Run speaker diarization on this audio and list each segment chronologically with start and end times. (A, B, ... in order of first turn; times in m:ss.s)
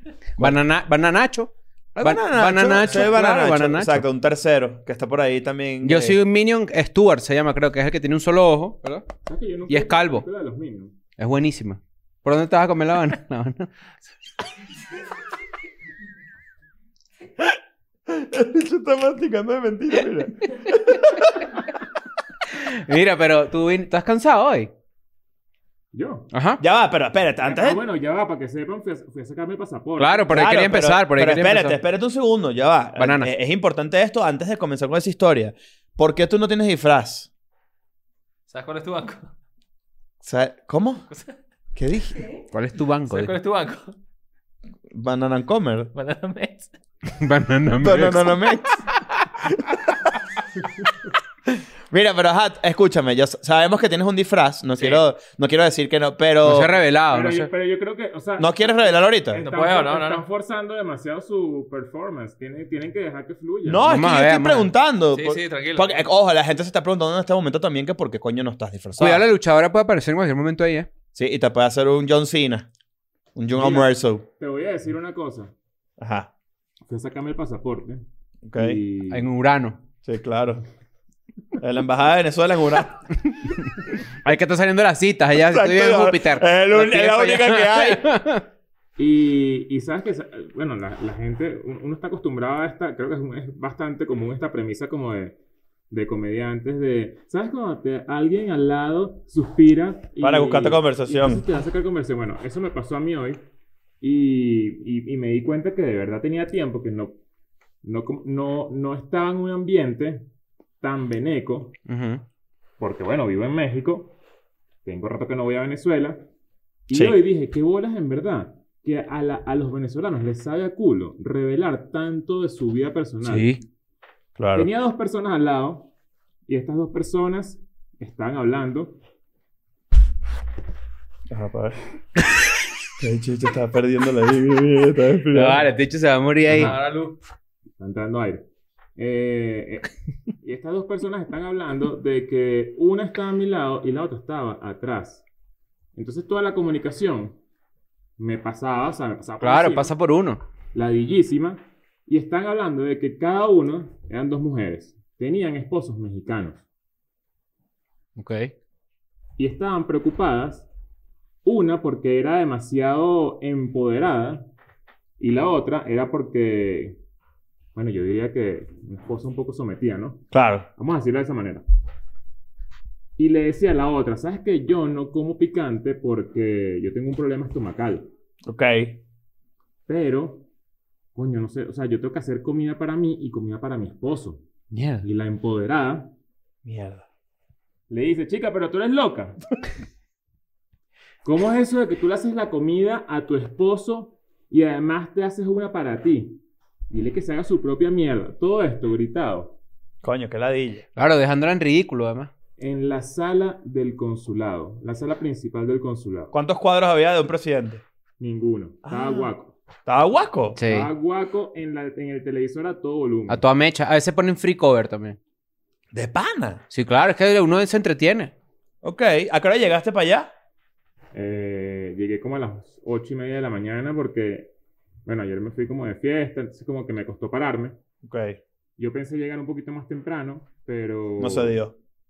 0:00.4-0:04.0 A
0:02.0-0:06.2 B
0:05.8-0:09.1 A
0:09.2-0:10.9 C
0:09.7-0:10.2 A
0:11.2-0:13.7 A
0:18.1-0:21.5 B
0:22.6-0:24.7 A
0:25.9-0:26.3 C
0:26.3-0:26.6 A
0:26.6-0:27.8 B
0:27.4-0:30.4 C
0:30.0-0:31.8 A
0:30.3-0:37.3 B
0:33.0-0:33.3 A
0:38.5-0:39.3 D
0:40.2-0:41.0 B
0:41.8-0:42.2 B
0:42.5-0:43.4 A
0:43.1-0:43.9 D
0:44.9-0:45.9 B
0:45.9-0:46.7 D
0:47.1-0:48.3 A
0:47.8-0:48.8 B
0:49.4-0:50.1 B
0:51.5-0:56.7 B
0:56.4-0:57.5 A
0:57.1-1:03.8 C
0:58.4-0:59.4 B
0:59.4-1:00.2 D
1:03.6-1:09.3 B
1:03.8-1:04.7 A
1:05.1-1:06.0 D
1:09.0-1:10.9 A
1:11.1-1:12.7 B
1:13.3-1:14.2 B
1:13.6-1:15.5 C
1:16.0-1:16.3 B
1:16.9-1:19.3 C
1:18.4-1:18.8 B
1:19.1-1:19.8 A
1:20.0-1:20.6 B
1:21.6-1:23.0 B
1:24.2-1:28.4 A
1:25.3-1:28.1 B
1:29.0-1:35.4 C
1:35.9-1:43.4 C
1:40.2-1:41.4 B
1:44.0-1:47.1 C
1:47.8-1:50.2 C
1:50.8-1:51.8 C
1:51.8-1:52.2 A
1:52.8-1:54.1 C
1:54.8-1:56.3 C
1:56.9-2:03.5 C
1:56.9-1:57.2 B
2:03.2-2:03.6 A
2:04.4-2:04.7 B
2:04.5-2:05.9 C
2:06.5-2:09.0 C
2:11.3-2:11.8 B
2:13.0-2:15.7 B
2:15.3-2:16.7 A
2:16.5-2:16.8 C
2:16.5-2:17.2 D
2:17.8-2:25.2 C
2:25.9-2:27.4 C
2:28.2-2:29.9 C
2:29.4-2:30.4 A
2:30.7-2:36.6 C
2:38.2-2:38.5 A
2:39.4-2:40.7 C
2:41.4-2:44.5 C
2:45.2-2:47.0 C
2:47.7-2:51.6 C
2:50.3-2:50.6 B
2:53.2-2:58.1 C
2:58.4-2:59.0 B
2:59.9-3:00.4 C
3:01.1-3:04.4 C
3:04.7-3:05.0 A
3:05.0-3:06.1 C
3:06.6-3:07.0 B
3:07.9-3:09.4 C
3:11.2-3:19.6 C
3:20.0-3:20.8 B
3:21.0-3:22.3 A
3:22.6-3:26.3 C
3:26.3-3:27.8 B
3:28.2-3:29.5 C
3:28.8-3:29.3 B
3:29.8-3:30.6 B
3:30.6-3:30.9 A
3:30.6-3:33.4 C
3:33.3-3:35.2 A
3:35.9-3:36.6 B
3:36.7-3:38.3 A
3:38.8-3:40.3 B
3:41.1-3:44.5 C
3:45.0-3:47.8 C
3:48.0-3:48.4 B
3:48.8-3:51.6 C
3:51.2-3:51.7 B